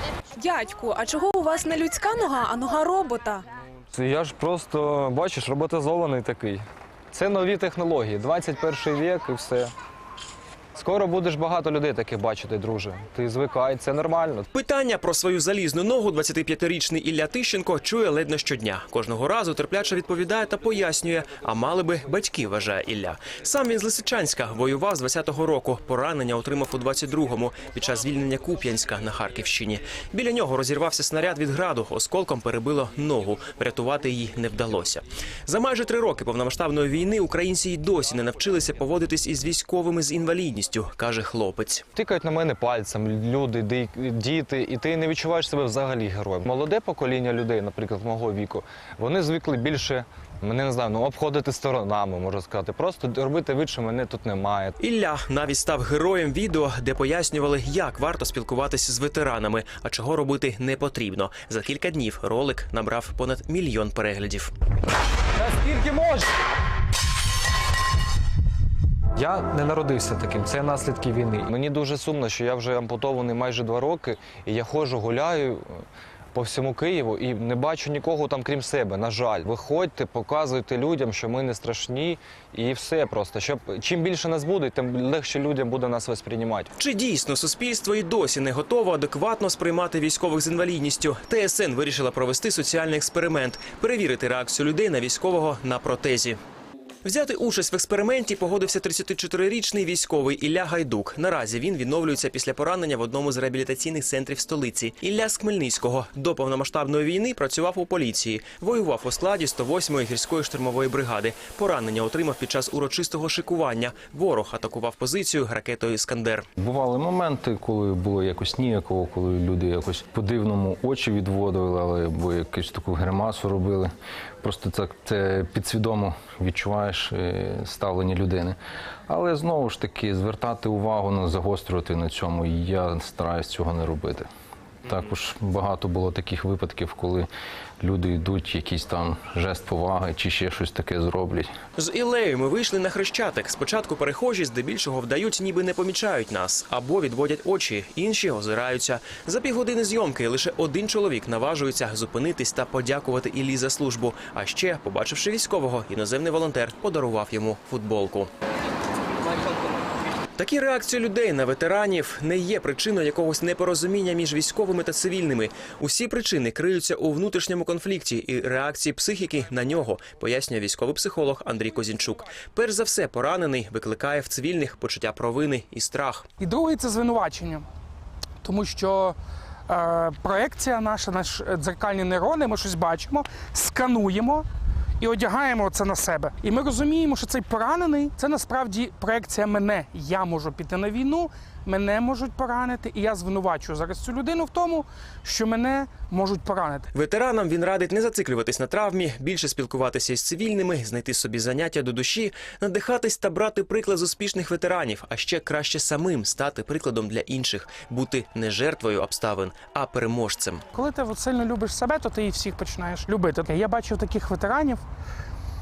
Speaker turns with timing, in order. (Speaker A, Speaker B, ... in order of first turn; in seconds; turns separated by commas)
Speaker A: 0.4-3.4, Speaker B: 3.9-9.7, Speaker B: 10.7-14.5, Speaker C: 14.5-41.8, Speaker B: 41.9-54.7, Speaker C: 54.8-64.5, Speaker B: 65.4-66.2, Speaker B: 69.2-75.8, Speaker B: 76.3-86.7, Speaker C: 86.8-96.4, Speaker C: 97.0-116.5, Speaker D: 116.6-128.6, Speaker D: 129.1-134.3, Speaker D: 134.8-137.3, Speaker D: 137.8-141.5, Speaker C: 141.8-158.3, Speaker C: 160.4-176.3, Speaker E: 176.4-177.6, Speaker E: 178.4-179.2, Speaker E: 179.7-184.4, Speaker E: 185.0-196.9, Speaker C: 196.9-210.6, Speaker E: 210.7-214.8